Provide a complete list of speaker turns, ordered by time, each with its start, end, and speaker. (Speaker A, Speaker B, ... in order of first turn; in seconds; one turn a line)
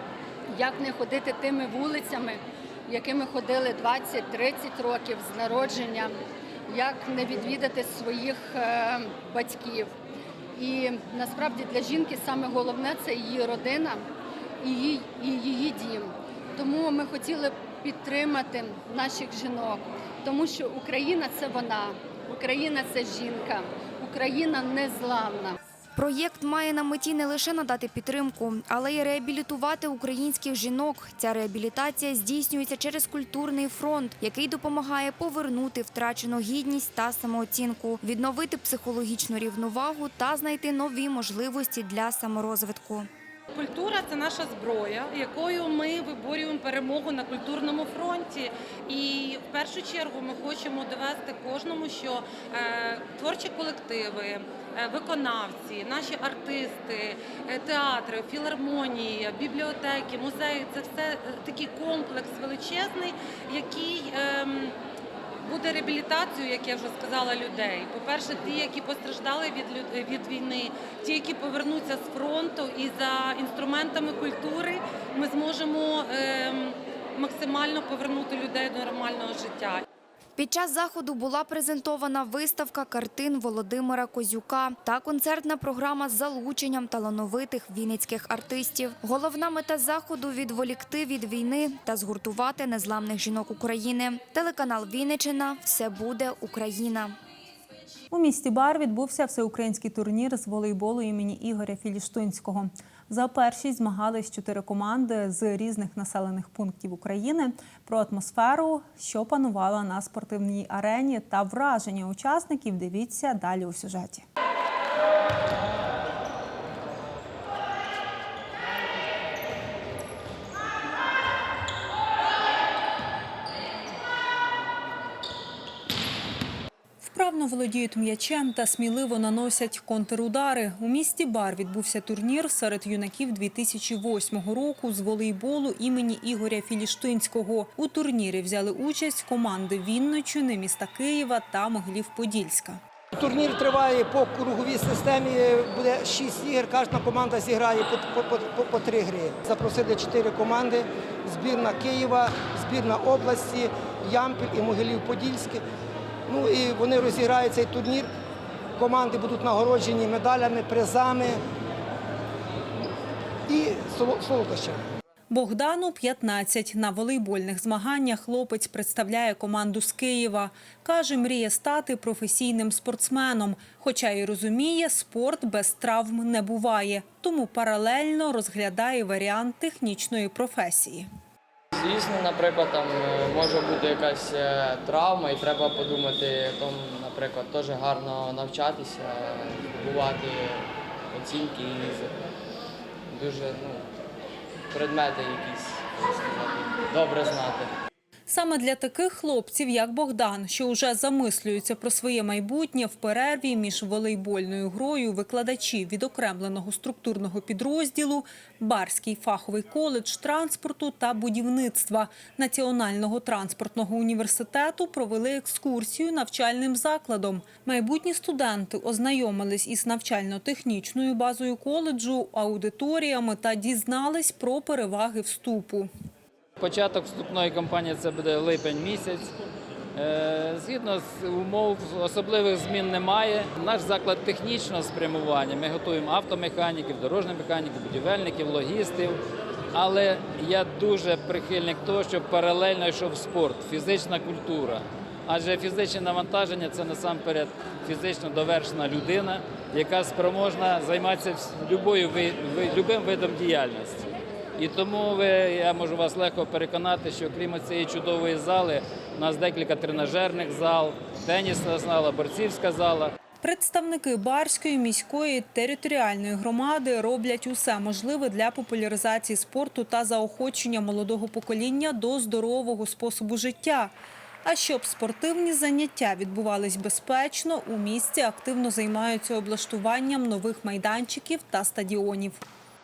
Speaker A: 0.5-9.9
Speaker A: 10.6-14.0
Speaker A: 14.6-25.6
Speaker B: 26.0-43.1
Speaker C: 43.5-64.8
Speaker C: 65.4-79.8
Speaker B: 80.4-97.1
Speaker D: 98.1-114.2
Speaker D: 127.0-142.8
Speaker E: 143.1-155.6
Speaker E: 156.3-158.1
Speaker E: 158.8-161.4
Speaker E: 163.5-164.8
Speaker D: 165.3-181.1
Speaker F: 181.8-192.2
Speaker F: 193.1-193.8
Speaker F: 194.7-197.7
Speaker D: 198.3-225.9
Speaker G: 226.6-229.3
Speaker G: 230.0-239.2
Speaker G: 239.7-254.1
Speaker G: 254.6-263.1
Speaker D: 263.4-273.9
Speaker D: 274.4-282.4